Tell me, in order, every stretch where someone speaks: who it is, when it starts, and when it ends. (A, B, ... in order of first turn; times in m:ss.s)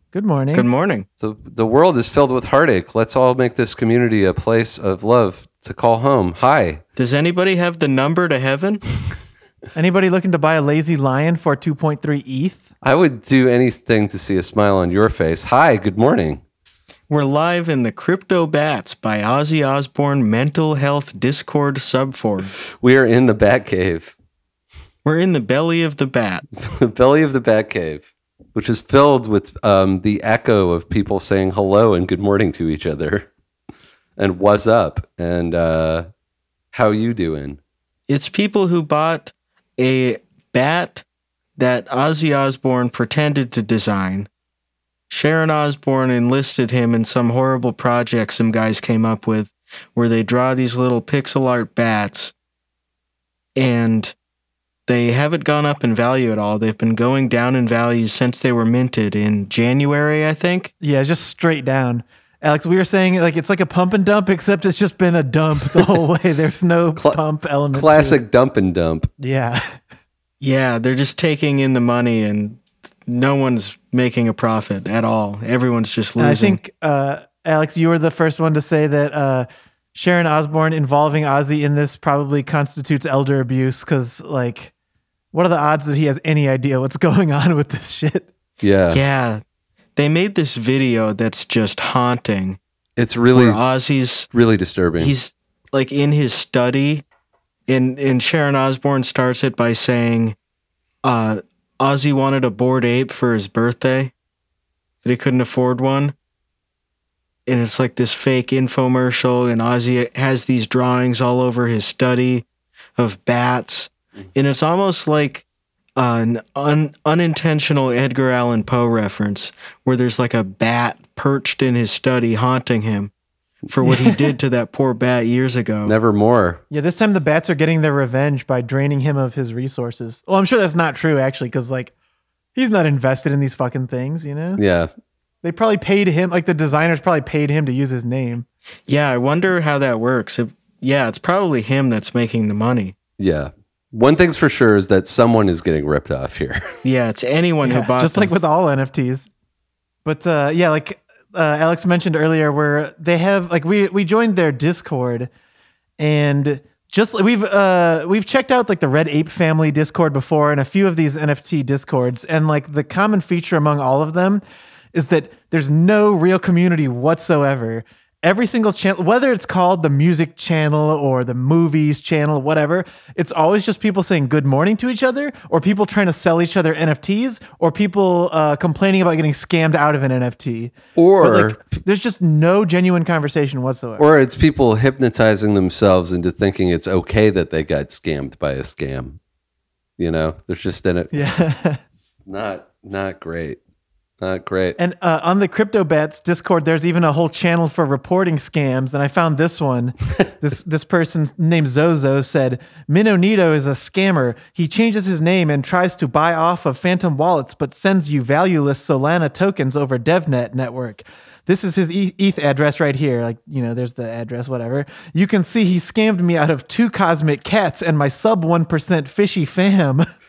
0:00.1-0:00.7 A
0:00.5-0:01.1 B
0:01.2-0:06.8 C
0:07.0-0:08.8 B
0:09.8-0:12.7 A
0:12.8-0:16.4 C
0:17.1-0:22.5 B
0:22.8-0:24.1 C
0:25.0-0:26.4 B
0:26.6-0:33.3 C
0:34.2-0:36.0 C
0:36.7-0:37.6 C
0:38.1-0:41.0 B
0:41.6-0:44.3 B
0:45.1-0:52.3 B
0:53.6-0:54.2 B
0:54.9-1:00.7 B
1:00.8-1:08.2 A
1:07.7-1:09.1 C
1:09.2-1:09.8 A
1:10.4-1:16.6 B
1:16.2-1:24.7 A
1:25.3-1:28.3 A
1:28.6-1:29.0 C
1:28.9-1:29.4 B
1:30.0-1:32.6 B
1:33.0-1:33.6 C
1:33.3-1:34.3 B
1:34.3-1:35.2 C
1:35.0-1:37.0 B
1:37.7-1:40.4 B
1:41.0-1:44.1 B
1:45.0-1:46.2 B
1:47.5-1:52.4 B
1:53.0-1:55.4 B
1:56.0-2:03.1 B
2:03.7-2:06.0 B
2:03.8-2:04.3 A
2:05.9-2:06.6 C
2:06.7-2:11.9 A
2:12.6-2:14.6 A
2:14.6-2:14.9 C
2:15.4-2:18.5 A
2:18.9-2:23.0 B
2:23.2-2:26.6 C
2:26.8-2:28.3 B
2:27.6-2:29.3 A
2:30.0-2:35.3 A
2:36.0-2:44.4 A
2:44.9-3:04.1 A
3:01.0-3:01.6 C
3:04.0-3:09.2 C
3:10.0-3:11.3 C
3:11.1-3:11.8 A
3:12.2-3:13.6 C
3:14.2-3:14.8 C
3:14.8-3:40.0 A